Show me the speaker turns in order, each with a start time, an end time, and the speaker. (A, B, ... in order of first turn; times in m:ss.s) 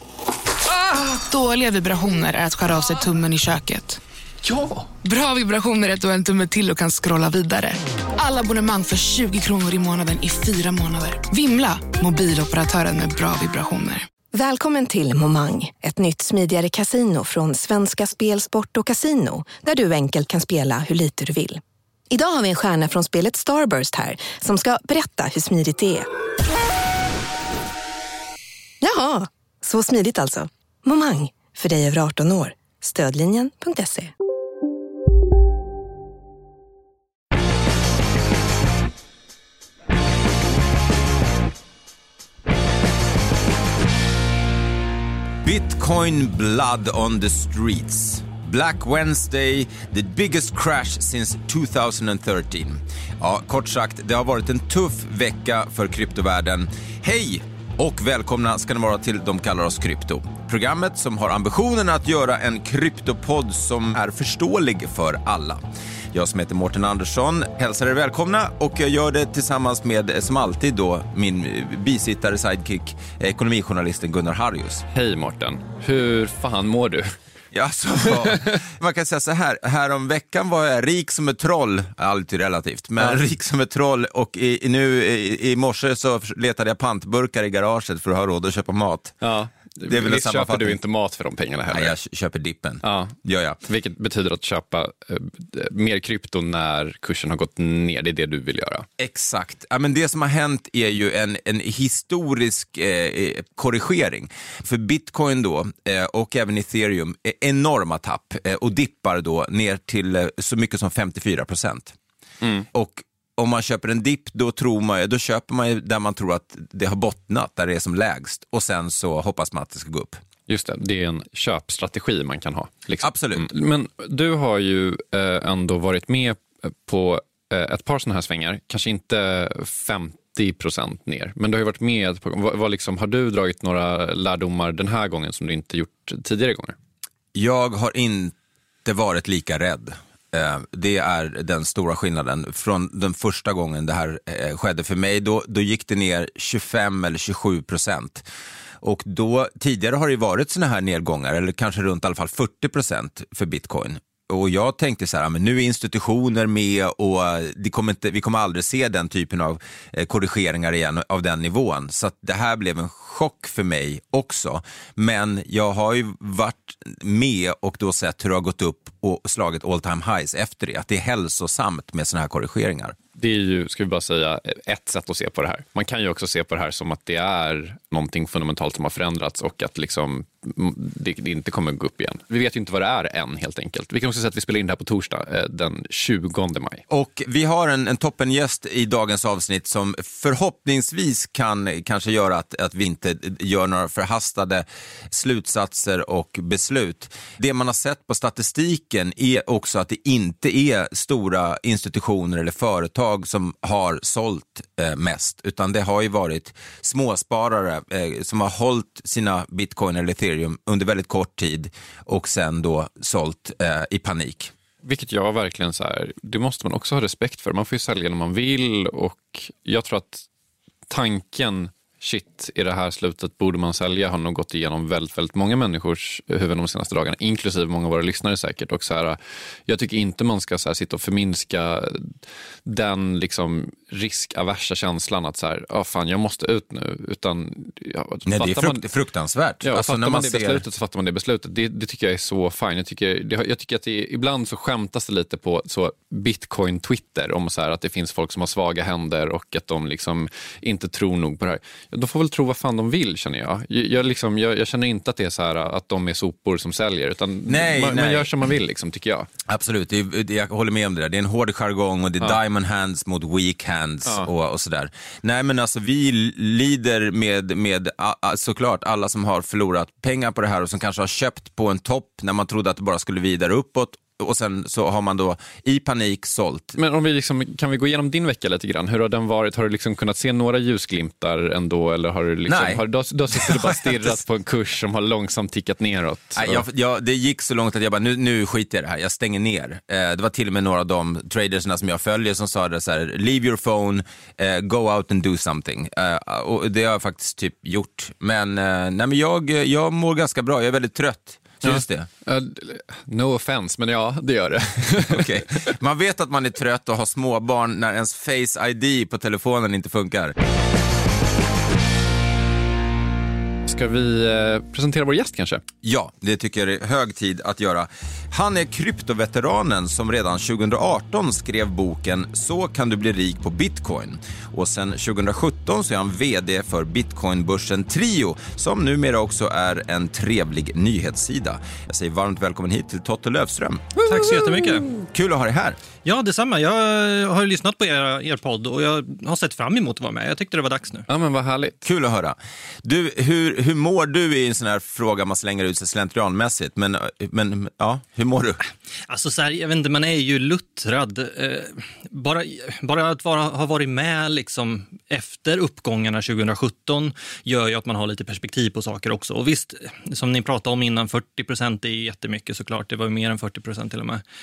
0:00.7-0:14.1 A
0:14.3-0:26.1 B
0:28.8-0:34.1 B
0:45.4-1:14.8 C
1:14.9-1:17.1 D
1:17.5-1:29.2 C
1:29.2-1:32.0 D
1:29.9-1:30.8 C
1:31.7-1:33.6 C
1:32.8-1:38.9 D
1:39.0-1:52.0 C
1:52.7-2:00.2 C
2:00.5-2:16.7 D
2:03.0-2:03.5 C
2:17.3-2:28.3 C
2:28.8-2:53.0 C
2:53.2-3:06.8 D
3:06.9-3:34.5 C
3:34.8-3:40.2 D
3:40.9-3:58.8 D
3:58.3-4:00.6 C
3:59.6-4:19.3 D
4:17.5-4:18.3 C
4:19.5-4:36.8 C
4:36.8-4:46.6 D
4:42.5-4:44.2 C
4:46.4-5:02.1 C
5:01.6-5:05.4 D
5:05.1-5:10.4 C
5:13.7-5:15.6 D
5:15.8-5:34.0 C
5:34.0-5:34.9 E
5:35.0-5:35.8 C
5:36.0-5:41.1 E
5:41.1-5:41.8 D
5:41.8-5:48.6 C
5:49.1-6:04.2 E